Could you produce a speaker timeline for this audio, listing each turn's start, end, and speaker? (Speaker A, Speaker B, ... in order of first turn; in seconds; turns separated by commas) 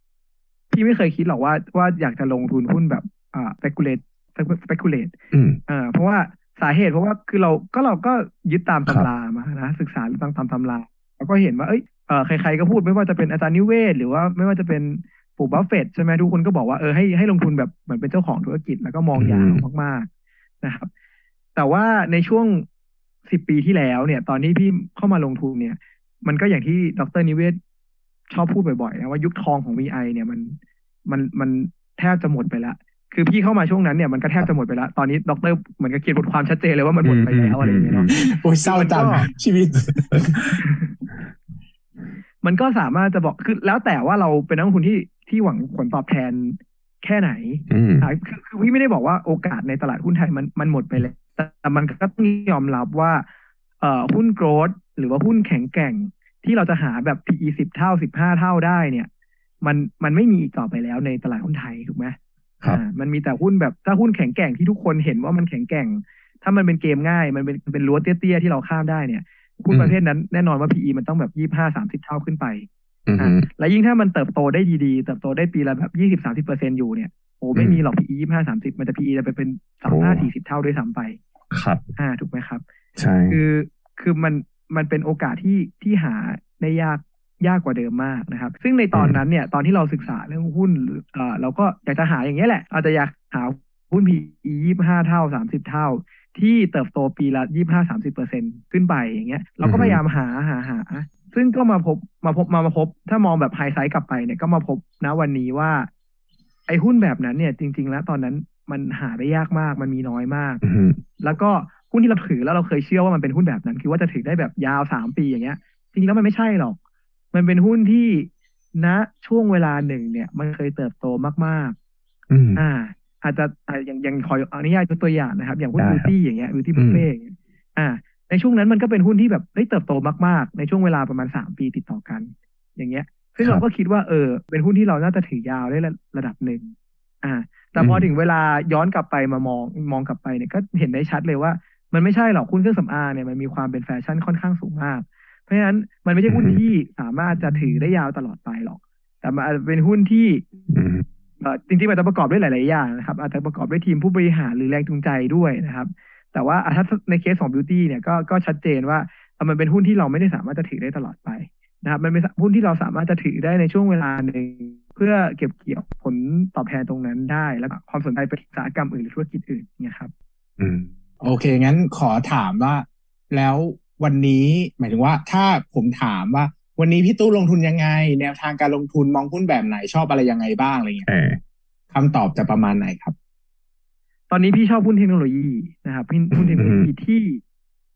Speaker A: 0.7-5.1, Speaker B: 5.3-5.6, Speaker A: 5.7-20.1, Speaker B: 19.2-19.6, Speaker A: 20.6-20.9, Speaker A: 21.6-22.7, Speaker A: 23.2-27.6, Speaker A: 28.3-38.1, Speaker B: 37.0-38.1, Speaker C: 38.2-40.5, Speaker A: 38.6-39.2, Speaker B: 40.0-40.4, Speaker A: 40.6-40.9, Speaker A: 42.4-53.3, Speaker B: 47.7-48.1, Speaker A: 53.8-59.1, Speaker A: 59.6-72.7, Speaker B: 69.7-70.0, Speaker B: 73.1-73.5, Speaker A: 73.2-81.2, Speaker B: 77.5-77.8, Speaker B: 79.9-80.3, Speaker B: 81.5-81.8, Speaker A: 82.0-82.6, Speaker B: 83.0-83.4, Speaker A: 83.3-105.9, Speaker B: 88.9-89.2, Speaker B: 99.6-100.0, Speaker A: 106.7-110.6, Speaker B: 110.6-111.0, Speaker A: 111.2-116.8, Speaker A: 117.3-121.8, Speaker B: 122.3-122.6, Speaker A: 122.6-150.4, Speaker B: 125.8-126.1, Speaker B: 126.8-127.1, Speaker B: 137.8-138.1, Speaker B: 146.3-146.6, Speaker B: 150.7-151.1, Speaker A: 151.4-170.1, Speaker B: 170.6-170.9, Speaker C: 171.2-181.1, Speaker B: 181.1-181.4, Speaker C: 181.9-183.1, Speaker A: 184.3-187.4, Speaker B: 186.3-186.9